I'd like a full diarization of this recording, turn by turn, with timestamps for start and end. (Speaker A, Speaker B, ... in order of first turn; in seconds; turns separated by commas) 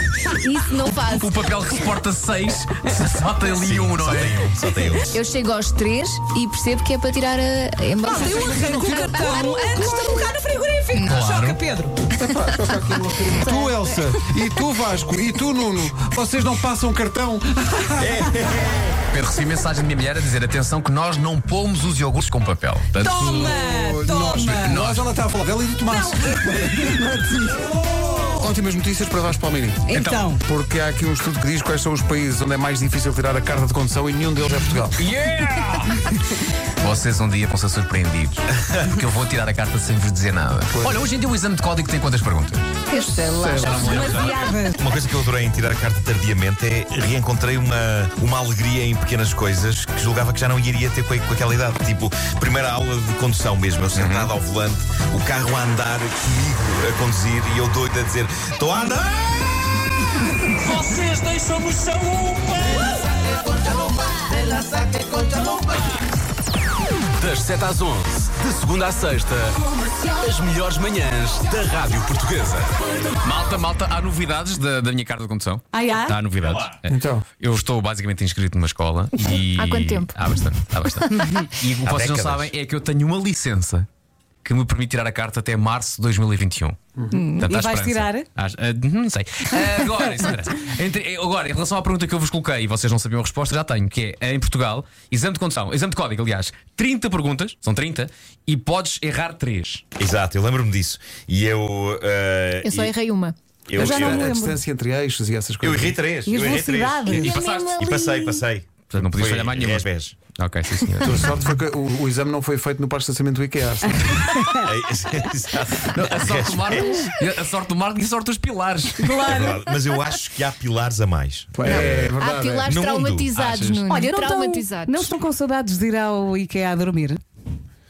Speaker A: 0.3-1.3, Speaker B: 0.9-4.5, Speaker C: 3.6-5.2, Speaker A: 5.0-8.9, Speaker D: 8.1-12.0, Speaker E: 8.3-10.2, Speaker B: 11.0-11.6, Speaker E: 12.1-18.7, Speaker C: 18.0-19.0, Speaker B: 19.1-23.2, Speaker D: 23.0-24.8, Speaker E: 23.0-35.0, Speaker B: 24.6-25.1, Speaker D: 25.9-27.0, Speaker D: 29.9-30.4, Speaker B: 29.9-30.3, Speaker B: 34.9-36.2, Speaker B: 36.8-42.8, Speaker E: 40.7-41.0, Speaker D: 42.9-44.8, Speaker B: 43.3-44.5, Speaker E: 43.3-43.7, Speaker C: 43.8-59.5, Speaker B: 53.9-54.3, Speaker F: 60.6-62.7, Speaker F: 67.2-69.6, Speaker F: 70.1-72.7, Speaker B: 73.2-83.9, Speaker D: 75.7-76.2, Speaker E: 76.9-77.2, Speaker A: 79.4-80.2, Speaker D: 81.1-81.5, Speaker C: 81.8-82.5, Speaker B: 84.4-86.8, Speaker A: 87.1-87.5, Speaker B: 87.4-99.8, Speaker D: 87.5-88.3, Speaker C: 100.0-103.0, Speaker A: 102.6-103.3, Speaker C: 103.7-104.3, Speaker E: 103.7-106.0, Speaker D: 103.8-104.6, Speaker C: 105.6-110.1, Speaker D: 106.2-107.3, Speaker B: 107.1-107.8, Speaker A: 107.2-108.4, Speaker B: 108.9-111.2, Speaker E: 111.0-114.3, Speaker D: 114.3-114.6, Speaker C: 114.6-117.0, Speaker B: 115.9-119.2, Speaker D: 119.0-119.7, Speaker C: 119.2-122.1, Speaker E: 121.5-122.7, Speaker A: 121.6-125.1, Speaker C: 122.7-123.5, Speaker B: 123.5-123.8, Speaker D: 123.9-127.2